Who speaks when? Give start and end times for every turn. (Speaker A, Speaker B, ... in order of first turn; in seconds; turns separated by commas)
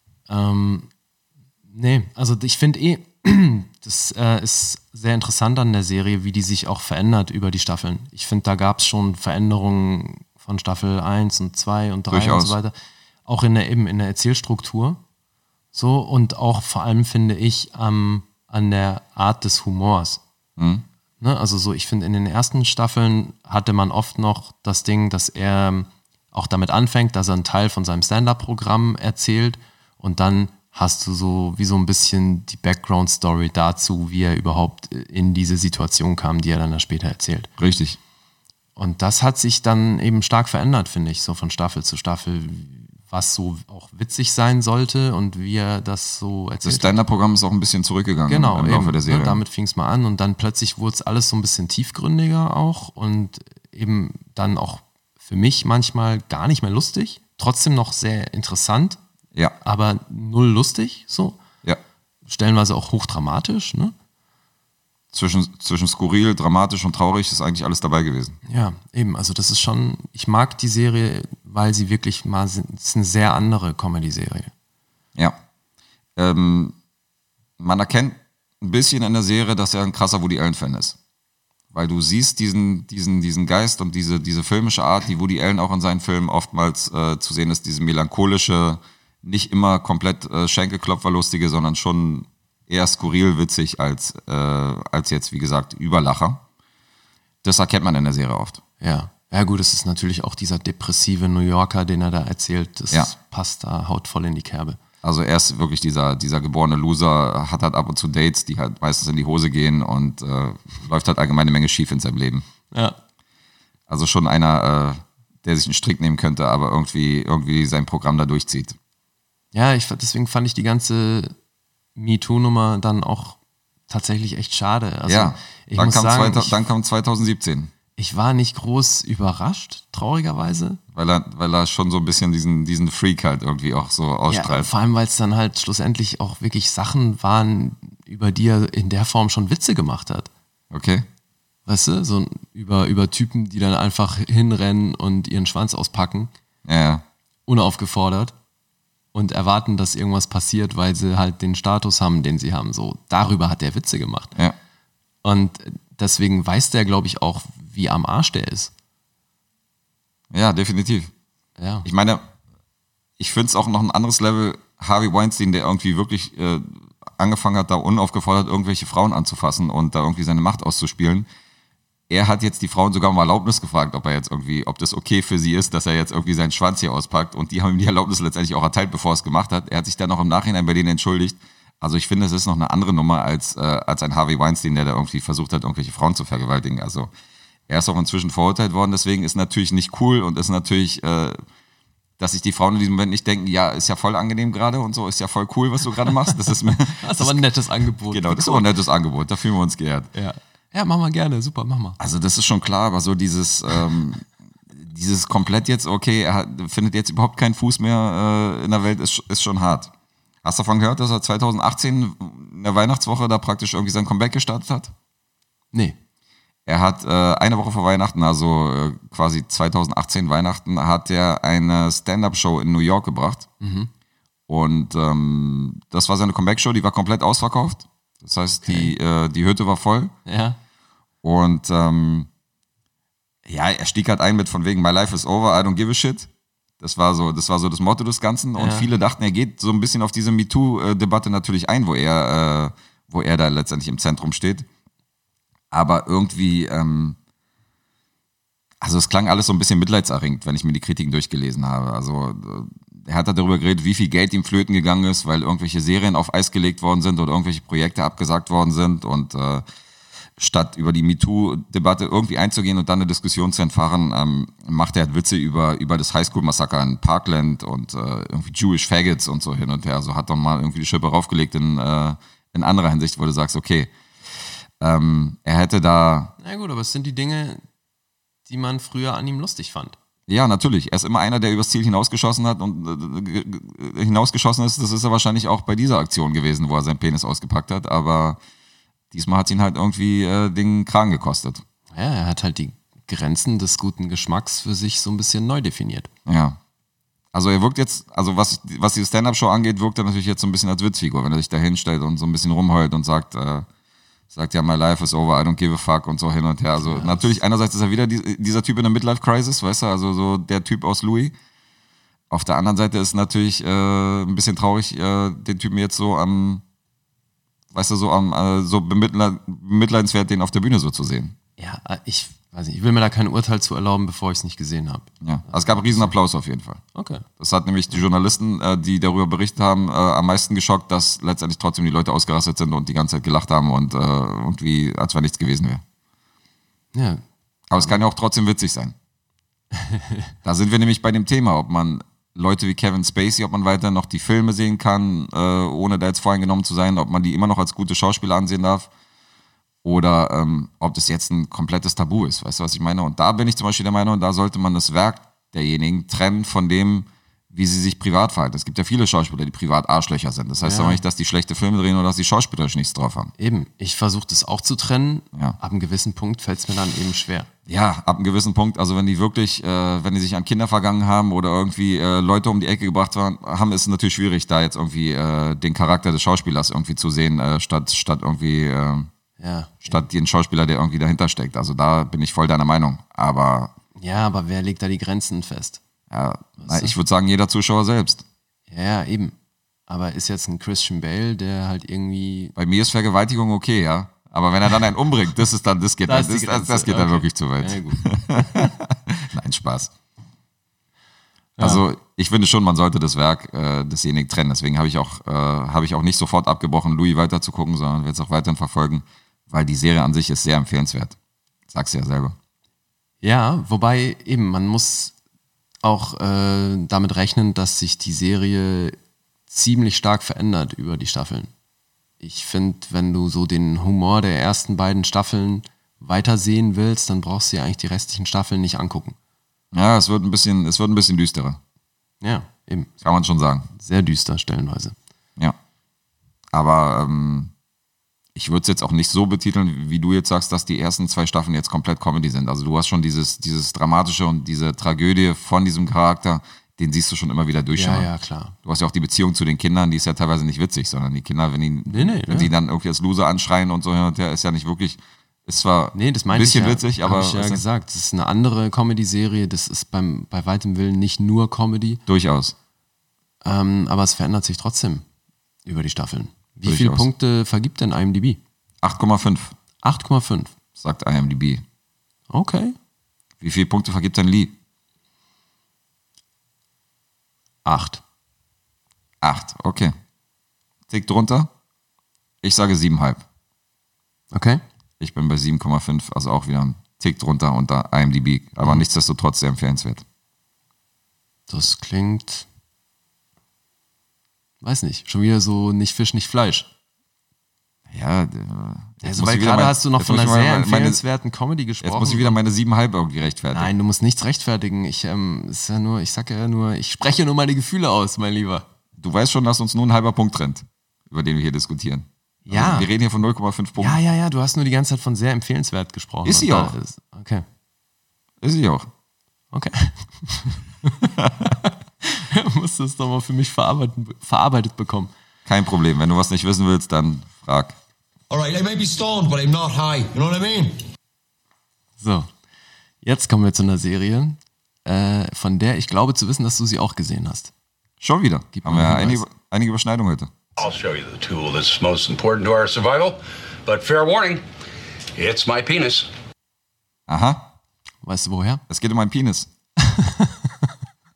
Speaker A: 0.3-0.9, Speaker A: 1.7-12.7, Speaker B: 12.1-12.6, Speaker A: 13.3-15.0, Speaker A: 15.7-20.2, Speaker B: 20.6-20.9, Speaker A: 21.2-37.5, Speaker B: 37.6-38.0, Speaker A: 38.8-47.0, Speaker B: 46.6-49.4, Speaker A: 48.3-59.0, Speaker A: 59.6-61.4, Speaker A: 62.3-63.9, Speaker B: 65.1-68.4, Speaker A: 68.5-74.5, Speaker B: 76.2-76.8, Speaker B: 77.6-81.0, Speaker B: 81.7-96.4, Speaker B: 97.4-98.6, Speaker A: 98.8-104.8, Speaker B: 105.0-112.5, Speaker A: 112.7-113.0, Speaker B: 113.9-118.8, Speaker A: 119.5-121.3, Speaker A: 122.0-123.4, Speaker A: 123.9-126.6, Speaker B: 125.1-127.7, Speaker A: 128.0-130.8, Speaker B: 130.9-134.7, Speaker A: 134.3-140.3, Speaker B: 140.7-141.1, Speaker A: 141.7-146.3, Speaker B: 146.7-147.0, Speaker A: 147.5-148.3, Speaker A: 149.1-154.4, Speaker A: 155.2-158.7, Speaker B: 160.3-161.1, Speaker A: 161.6-161.9, Speaker B: 161.8-162.3, Speaker B: 163.2-171.3, Speaker B: 172.1-187.1, Speaker B: 187.7-191.4, Speaker B: 192.2-197.4, Speaker A: 196.9-198.7, Speaker B: 198.1-200.1, Speaker A: 200.1-202.0, Speaker B: 202.0-209.9, Speaker B: 210.4-214.9, Speaker B: 216.7-223.5, Speaker A: 223.6-223.9, Speaker B: 224.5-230.1, Speaker A: 228.6-228.9, Speaker A: 230.3-230.6, Speaker B: 231.2-232.3, Speaker B: 233.5-244.7, Speaker A: 238.6-238.9, Speaker B: 245.7-247.2, Speaker B: 248.8-259.6, Speaker B: 260.4-273.9, Speaker B: 274.8-276.3, Speaker A: 276.4-277.6, Speaker A: 278.5-280.0, Speaker B: 280.3-288.4, Speaker B: 289.1-291.6, Speaker A: 291.9-296.1, Speaker B: 296.3-296.6, Speaker B: 297.3-303.7, Speaker B: 304.3-311.3, Speaker A: 306.8-307.4, Speaker B: 312.3-316.6, Speaker B: 317.7-321.4, Speaker A: 321.6-326.1, Speaker B: 325.2-326.8, Speaker A: 326.9-327.2, Speaker B: 327.4-335.8, Speaker A: 336.9-337.2, Speaker B: 337.7-338.9, Speaker A: 339.8-340.2, Speaker B: 340.4-348.9, Speaker B: 349.8-363.3, Speaker A: 360.6-361.0, Speaker A: 363.4-367.5, Speaker B: 367.7-379.1, Speaker A: 379.4-380.0, Speaker B: 379.9-383.7, Speaker A: 384.0-385.8, Speaker B: 386.1-388.2, Speaker A: 386.6-386.9, Speaker A: 388.7-389.4, Speaker A: 389.9-392.5, Speaker B: 392.6-399.9, Speaker A: 396.1-398.6, Speaker A: 401.6-401.9, Speaker B: 401.6-411.2, Speaker B: 411.7-412.4, Speaker A: 413.2-415.1, Speaker A: 415.8-419.0, Speaker A: 419.5-421.5, Speaker A: 422.2-429.2, Speaker B: 429.7-431.6, Speaker A: 432.2-432.9, Speaker B: 433.0-433.7, Speaker A: 433.7-434.9, Speaker B: 436.5-437.5, Speaker B: 438.4-448.1, Speaker A: 447.7-448.6, Speaker B: 448.6-457.6, Speaker A: 451.9-452.5, Speaker A: 455.9-462.0, Speaker B: 462.1-462.6, Speaker A: 463.4-465.0, Speaker A: 465.7-468.4, Speaker B: 466.6-467.1, Speaker B: 468.8-469.6, Speaker A: 469.8-470.5, Speaker B: 470.8-471.6, Speaker A: 472.3-472.8, Speaker B: 473.4-474.6, Speaker A: 477.6-478.0, Speaker B: 479.2-479.9, Speaker B: 480.9-481.5, Speaker B: 482.4-483.2, Speaker A: 484.3-484.6, Speaker B: 485.0-490.0, Speaker A: 491.5-492.5, Speaker A: 494.6-496.7, Speaker B: 497.9-501.0, Speaker A: 499.0-502.4, Speaker B: 501.8-503.7, Speaker A: 503.5-508.7, Speaker B: 509.0-514.0, Speaker A: 512.5-512.9, Speaker A: 513.8-517.5, Speaker B: 516.2-516.8, Speaker B: 518.4-518.9, Speaker A: 519.5-525.1, Speaker B: 521.2-521.5, Speaker B: 525.5-527.8, Speaker C: 528.3-530.8, Speaker A: 532.0-532.3, Speaker A: 533.0-537.5, Speaker B: 538.0-540.3, Speaker A: 538.5-539.2, Speaker D: 540.6-544.4, Speaker D: 545.2-546.1, Speaker B: 547.1-547.5, Speaker A: 548.0-548.6, Speaker B: 548.7-549.5, Speaker A: 549.8-550.7